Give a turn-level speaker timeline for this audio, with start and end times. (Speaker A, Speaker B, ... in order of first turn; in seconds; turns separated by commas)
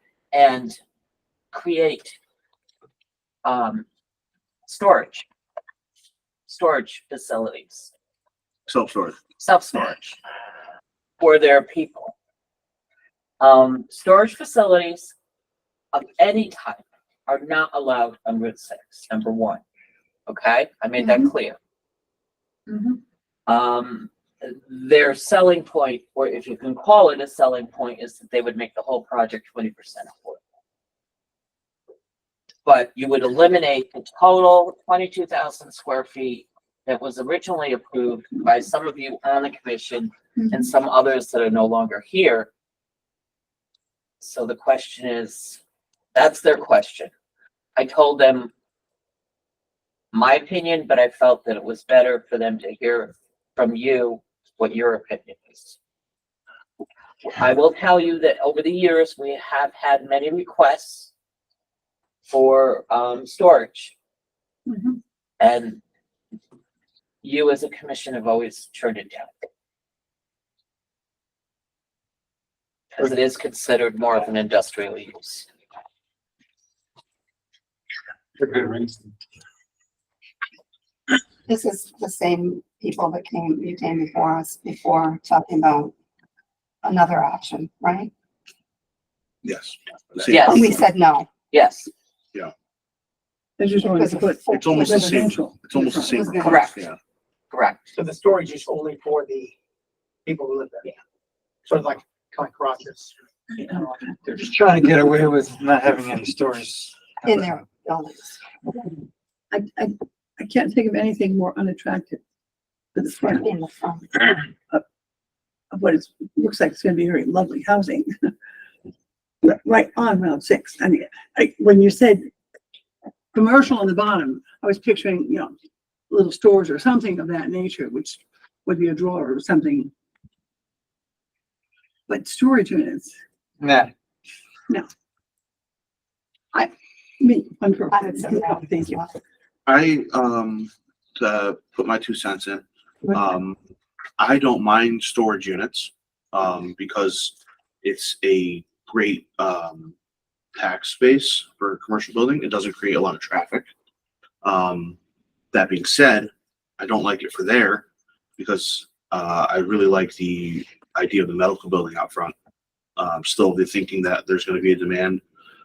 Speaker A: 0.3-0.8, Speaker A: 1.5-2.2, Speaker A: 3.5-3.9, Speaker A: 4.7-5.3, Speaker A: 6.5-7.9, Speaker B: 8.7-9.2, Speaker A: 9.4-10.2, Speaker A: 11.2-12.2, Speaker A: 13.4-15.1, Speaker A: 15.9-19.6, Speaker A: 20.3-21.6, Speaker C: 21.0-21.3, Speaker C: 22.7-23.0, Speaker A: 23.5-30.4, Speaker A: 32.6-42.5, Speaker A: 44.2-45.6, Speaker A: 46.1-47.1, Speaker A: 47.8-48.5, Speaker A: 50.1-55.8, Speaker A: 57.3-61.1, Speaker A: 62.3-63.9, Speaker C: 64.7-65.0, Speaker A: 65.4-65.8, Speaker A: 67.2-69.3, Speaker A: 73.0-75.5, Speaker D: 78.4-79.0, Speaker E: 81.5-85.9, Speaker E: 86.8-88.1, Speaker B: 89.4-90.8, Speaker A: 90.3-90.8, Speaker E: 90.4-91.3, Speaker A: 91.5-91.9, Speaker C: 93.6-96.3, Speaker E: 93.8-95.4, Speaker B: 94.5-97.0, Speaker E: 96.0-96.7, Speaker A: 96.4-96.8, Speaker A: 97.5-97.8, Speaker F: 97.9-99.5, Speaker F: 100.2-100.9, Speaker F: 101.7-103.2, Speaker C: 103.5-104.2, Speaker D: 104.3-107.6, Speaker E: 107.3-108.4, Speaker C: 109.5-112.2, Speaker C: 113.0-113.5, Speaker E: 113.2-114.1, Speaker C: 115.7-118.3, Speaker C: 119.4-122.3, Speaker C: 123.3-125.5, Speaker C: 126.1-129.9, Speaker C: 132.1-133.1, Speaker D: 133.6-133.9, Speaker C: 136.5-139.0, Speaker E: 137.9-139.2, Speaker B: 139.7-143.6, Speaker B: 144.2-149.9, Speaker B: 150.6-153.7, Speaker B: 154.4-155.0, Speaker B: 155.5-157.8, Speaker B: 158.4-162.3, Speaker B: 163.0-165.2